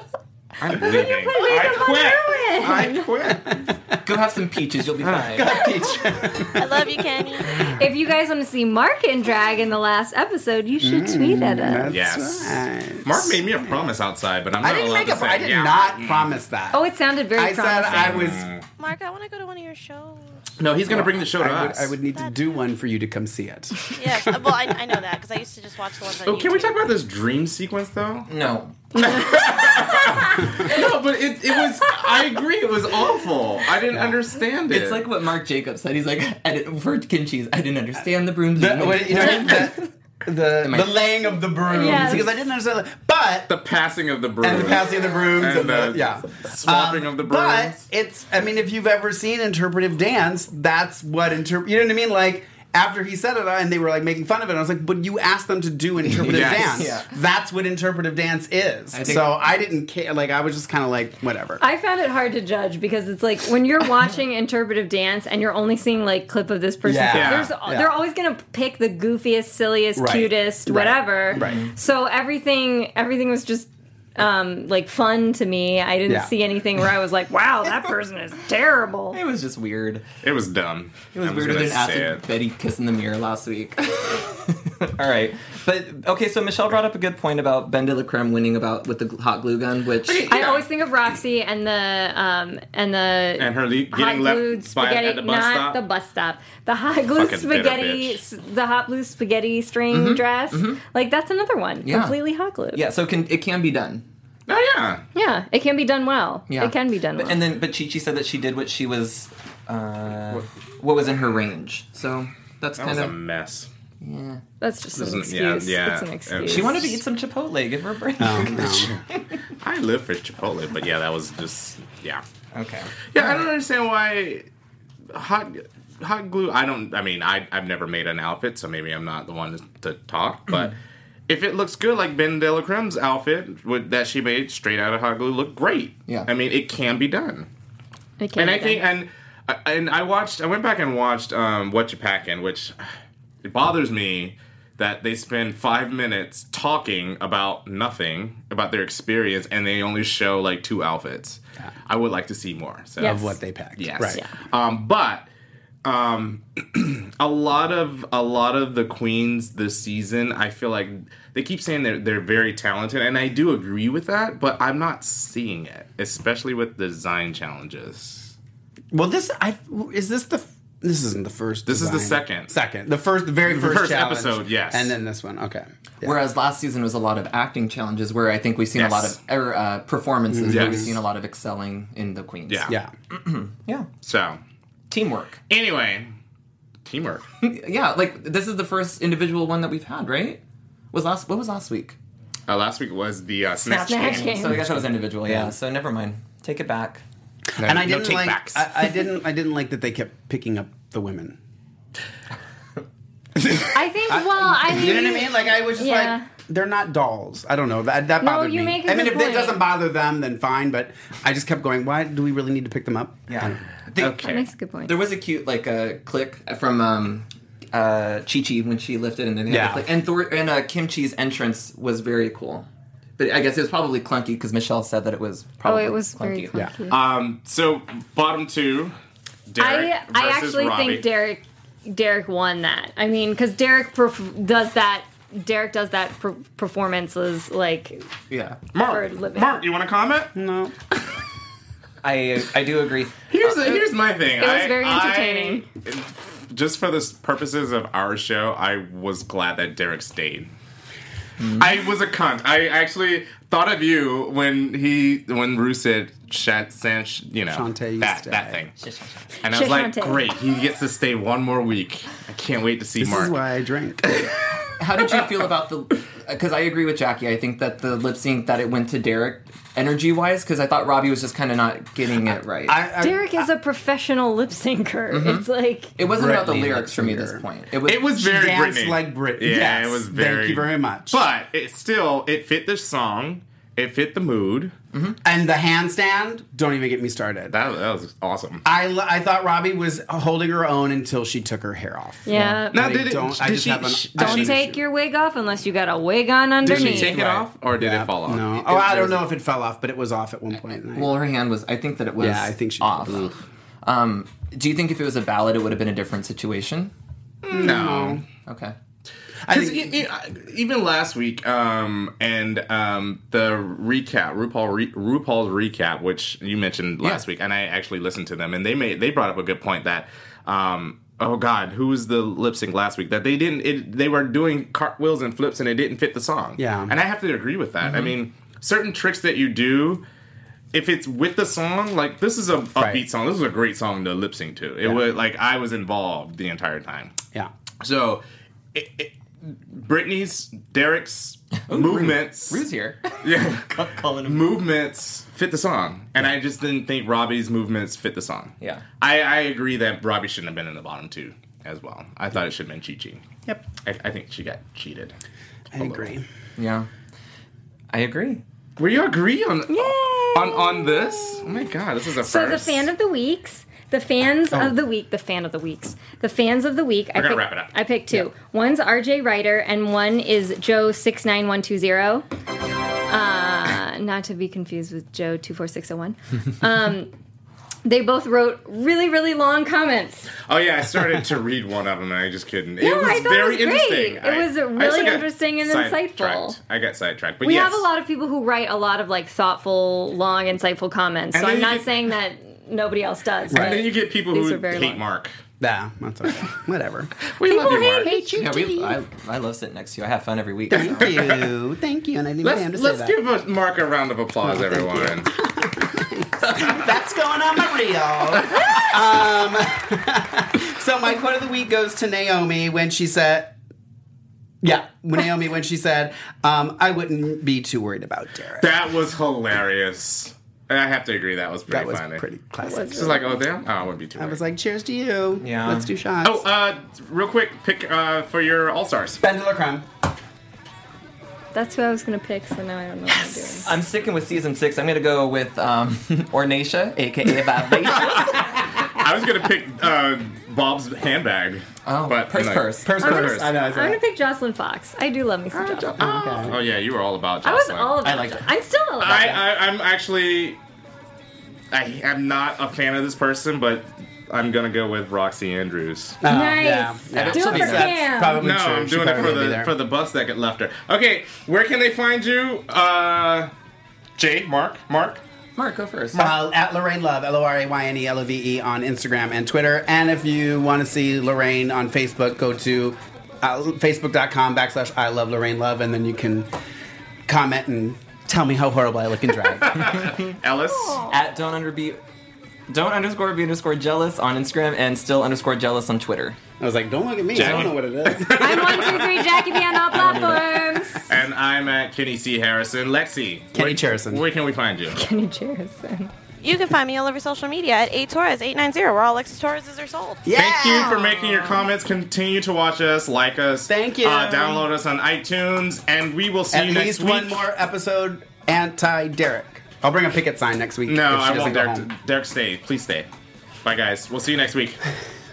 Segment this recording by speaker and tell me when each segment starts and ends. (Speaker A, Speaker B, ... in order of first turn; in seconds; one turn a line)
Speaker A: 0.6-3.6
Speaker B: 0.8-3.1
Speaker C: 3.3-3.9
Speaker D: 4.0-5.6
Speaker A: 5.0-6.0
Speaker C: 5.3-6.7
Speaker E: 6.6-7.6
Speaker C: 7.4-7.7
Speaker B: 7.7-11.9
Speaker C: 10.8-13.8
Speaker A: 11.9-16.4
Speaker C: 14.6-16.8
Speaker B: 16.7-18.3
Speaker C: 17.4-18.4
Speaker A: 17.9-18.6
Speaker E: 18.8-20.5
Speaker A: 20.6-21.9
Speaker C: 20.9-23.9
Speaker E: 22.1-22.4
Speaker E: 23.9-26.9
Speaker A: 26.2-28.3
Speaker D: 28.3-28.8
Speaker A: 28.9-35.1
Speaker D: 34.7-39.9
Speaker C: 38.5-43.5
Speaker D: 40.6-41.0
Speaker B: 41.6-42.3
Speaker D: 41.9-42.2
Speaker A: 43.5-47.8
Speaker C: 44.4-61.6
Speaker D: 56.1-57.1
Speaker A: 56.2-56.9
Speaker D: 58.9-59.5
Speaker B: 61.6-79.2
Speaker C: 66.8-67.9
Speaker A: 67.1-67.5
Speaker C: 70.0-71.7
Speaker D: 71.3-71.7
Speaker C: 76.1-76.3
Speaker D: 79.1-80.1
Speaker A: 80.2-82.2
Speaker D: 81.1-90.3
Speaker A: 90.0-90.6
Speaker B: 90.3-102.8
Speaker A: 93.4-95.8
Speaker A: 97.1-98.2
Speaker D: 99.9-100.8
Speaker D: 101.8-102.2
Speaker D: 102.7-104.0
Speaker A: 104.5-105.0
Speaker B: 105.1-107.4
Speaker D: 106.5-113.1
Speaker A: 112.8-113.7
Speaker D: 114.0-114.4
Speaker B: 114.6-116.8
Speaker A: 115.0-117.0
Speaker D: 116.5-119.3
Speaker C: 118.2-118.9
Speaker A: 118.5-118.9
Speaker A: 119.6-122.2
Speaker D: 122.5-123.4
Speaker A: 123.1-124.5
Speaker A: 125.1-130.7
Speaker A: 131.3-137.5
Speaker B: 138.2-138.8
Speaker A: 138.4-142.8
Speaker A: 143.4-153.2
Speaker B: 153.0-153.4
Speaker C: 153.0-154.2
Speaker A: 153.8-155.3
Speaker A: 155.8-168.3
Speaker C: 168.9-176.1
Speaker A: 171.7-172.5
Speaker A: 173.5-174.9
Speaker D: 176.0-183.9
Speaker A: 178.8-179.2
Speaker C: 180.3-180.9
Speaker A: 180.5-180.9
Speaker A: 184.0-184.4
Speaker D: 184.9-185.4
Speaker A: 185.5-186.1
Speaker A: 186.8-187.2
Speaker D: 187.4-190.4
Speaker D: 190.9-192.0
Speaker A: 192.5-194.5
Speaker B: 193.6-194.6
Speaker D: 193.8-197.0
Speaker C: 197.6-201.4
Speaker A: 197.6-198.7
Speaker C: 203.4-213.6
Speaker B: 203.7-206.3
Speaker B: 208.2-209.6
Speaker D: 213.3-214.2
Speaker A: 214.0-214.4
Speaker B: 214.2-214.9
Speaker D: 214.8-222.7
Speaker C: 219.5-219.9
Speaker D: 223.2-226.5
Speaker B: 225.6-227.0
Speaker A: 226.9-228.9
Speaker A: 229.5-231.1
Speaker B: 229.6-238.0
Speaker D: 238.3-238.6
Speaker A: 238.7-240.3
Speaker B: 238.8-239.6
Speaker C: 240.3-240.7
Speaker D: 242.0-243.8
Speaker A: 243.3-250.5
Speaker B: 244.4-245.7
Speaker D: 251.4-251.7
Speaker A: 251.6-258.8
Speaker C: 257.5-258.6
Speaker D: 258.8-259.3
Speaker A: 259.4-263.3
Speaker B: 259.4-260.2
Speaker C: 263.0-264.0
Speaker D: 264.8-272.8
Speaker C: 272.6-273.5
Speaker B: 273.0-275.9
Speaker D: 275.1-275.4
Speaker D: 276.0-278.1
Speaker C: 276.0-277.4
Speaker A: 277.9-284.7
Speaker C: 278.1-281.2
Speaker D: 284.9-285.2
Speaker C: 285.2-287.5
Speaker A: 287.5-288.6
Speaker C: 288.6-294.8
Speaker B: 292.2-292.9
Speaker A: 292.7-294.6
Speaker B: 294.2-297.1
Speaker D: 296.6-297.5
Speaker A: 296.6-299.3
Speaker C: 297.8-301.2
Speaker D: 300.9-306.9
Speaker C: 302.2-303.4
Speaker A: 307.4-308.2
Speaker C: 307.5-308.2
Speaker D: 308.4-308.7
Speaker C: 309.4-310.0
Speaker A: 309.5-330.0
Speaker C: 326.6-326.9
Speaker A: 330.7-337.1
Speaker C: 332.8-333.0
Speaker A: 337.8-338.2
Speaker A: 338.7-342.6
Speaker D: 341.7-343.2
Speaker A: 343.2-353.2
Speaker D: 343.7-344.5
Speaker A: 353.8-355.1
Speaker A: 355.7-356.1
Speaker C: 355.7-356.2
Speaker D: 356.6-356.9
Speaker D: 357.9-358.4
Speaker A: 358.8-362.9
Speaker B: 359.7-361.6
Speaker B: 362.2-372.2
Speaker A: 367.1-367.7
Speaker B: 373.1-377.1
Speaker B: 377.8-380.3
Speaker A: 380.4-387.8
Speaker B: 382.8-386.6
Speaker B: 387.4-395.0
Speaker A: 391.3-391.9
Speaker A: 393.5-395.3
Speaker C: 393.5-393.8
Speaker C: 395.6-399.0
Speaker A: 397.2-398.2
Speaker B: 397.4-398.4
Speaker D: 398.3-401.3
Speaker C: 400.7-403.1
Speaker A: 400.8-401.4
Speaker A: 402.4-405.3
Speaker C: 404.4-413.5
Speaker C: 414.6-418.8
Speaker A: 418.6-422.2
Speaker C: 421.7-423.4
Speaker B: 422.6-423.3
Speaker A: 422.9-424.4
Speaker C: 424.1-426.4
Speaker D: 425.4-425.9
Speaker A: 426.2-429.2
Speaker C: 429.2-429.9
Speaker B: 431.5-433.7
Speaker D: 433.1-438.7
Speaker A: 437.9-443.5
Speaker D: 441.9-442.9
Speaker C: 442.8-444.0
Speaker B: 443.0-446.0
Speaker A: 445.5-448.0
Speaker C: 446.0-446.6
Speaker B: 447.4-449.4
Speaker D: 448.0-448.5
Speaker A: 449.0-450.6
Speaker C: 449.1-449.4
Speaker A: 451.7-456.2
Speaker C: 456.2-459.7
Speaker B: 456.2-458.4
Speaker D: 457.1-457.9
Speaker A: 458.4-463.5
Speaker A: 464.2-465.2
Speaker D: 465.6-466.3
Speaker C: 466.1-476.5
Speaker C: 477.2-480.0
Speaker A: 479.6-481.1
Speaker D: 480.0-480.3
Speaker B: 480.7-481.1
Speaker D: 481.1-482.0
Speaker D: 482.7-486.4
Speaker C: 486.6-488.9
Speaker A: 487.3-489.4
Speaker D: 487.4-487.7
Speaker B: 488.3-491.1
Speaker D: 489.8-490.7
Speaker A: 491.1-495.0
Speaker C: 493.5-494.2
Speaker B: 494.9-496.1
Speaker E: 496.4-500.3
Speaker C: 500.2-501.0
Speaker A: 500.3-507.4
Speaker C: 503.7-504.7
Speaker C: 506.5-511.9
Speaker A: 510.9-513.1
Speaker A: 513.6-514.8